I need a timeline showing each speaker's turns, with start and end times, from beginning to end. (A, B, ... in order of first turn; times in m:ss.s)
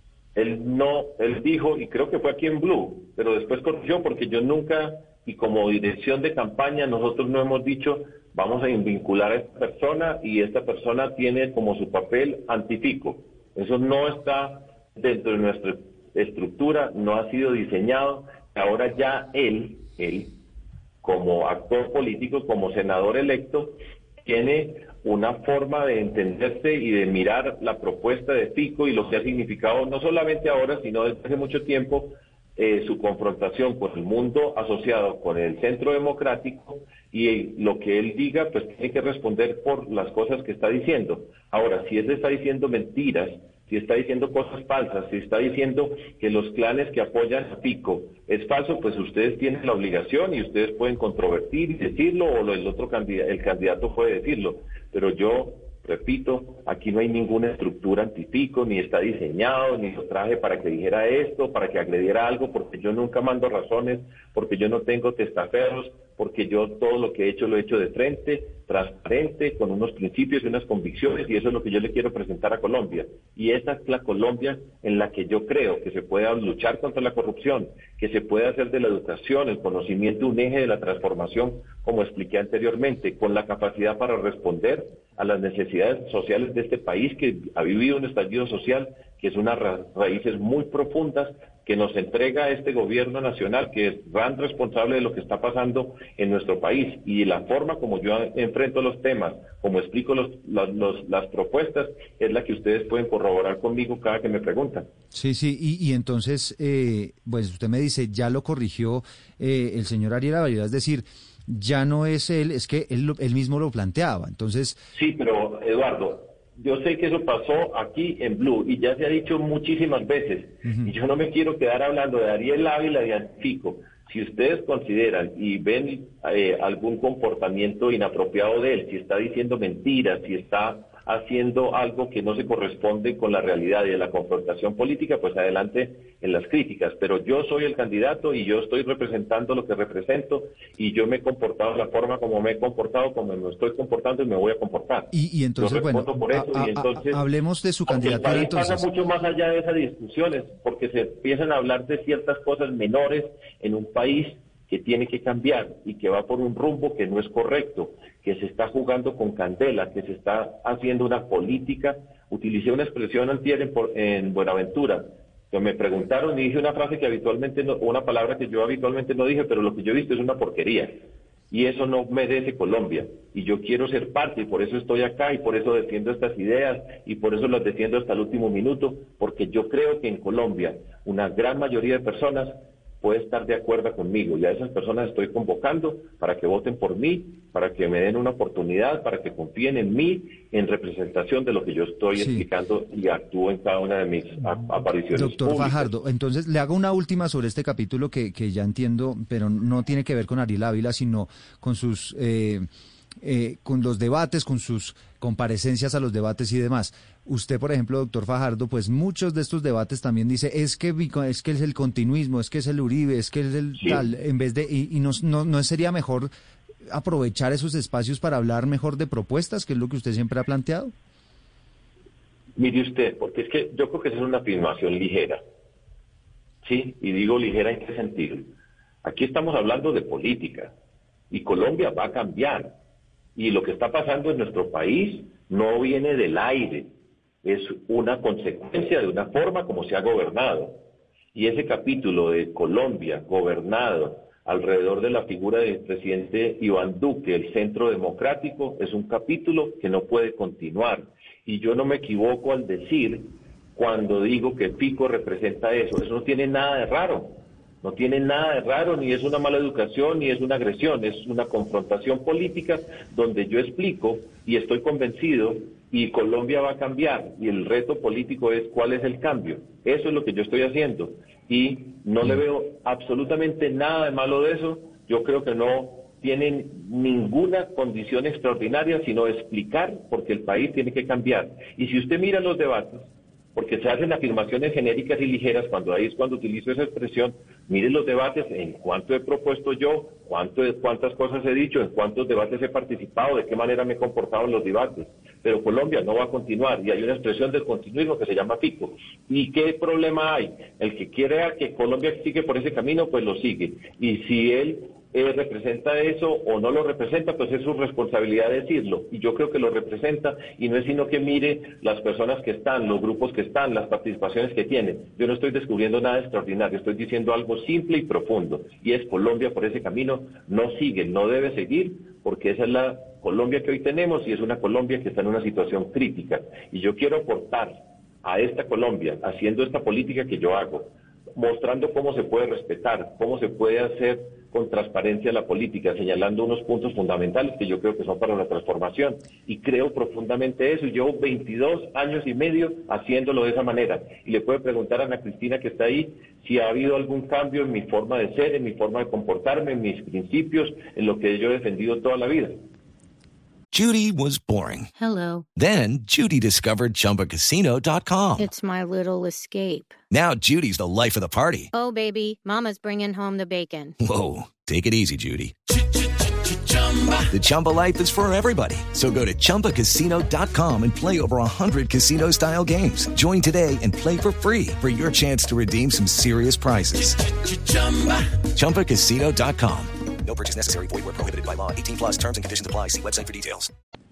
0:00.3-0:20.3 A
0:21.0-1:44.9 A
1:45.1-1:54.8 B
1:54.9-2:27.2 A
2:00.6-2:00.9 B
2:25.1-2:28.9 B
2:27.9-2:51.0 A
2:51.5-3:15.9 A
3:12.1-3:12.4 B
3:15.1-3:22.7 B
3:23.2-3:36.3 B
3:36.9-3:40.9 B
3:42.6-3:45.4 A
3:46.6-3:48.5 A
3:49.0-3:50.7 A
3:51.3-3:52.8 A
3:53.4-3:56.9 A
3:57.4-4:00.8 A
4:01.3-5:52.6 A
5:53.7-5:54.9 C
5:55.0-5:55.4 D
5:55.5-5:58.5 C
5:58.4-6:00.0 D
6:00.1-6:01.7 C
6:01.7-6:03.9 D
6:04.0-6:05.6 C
6:07.3-6:19.9 C
6:20.2-6:23.7 E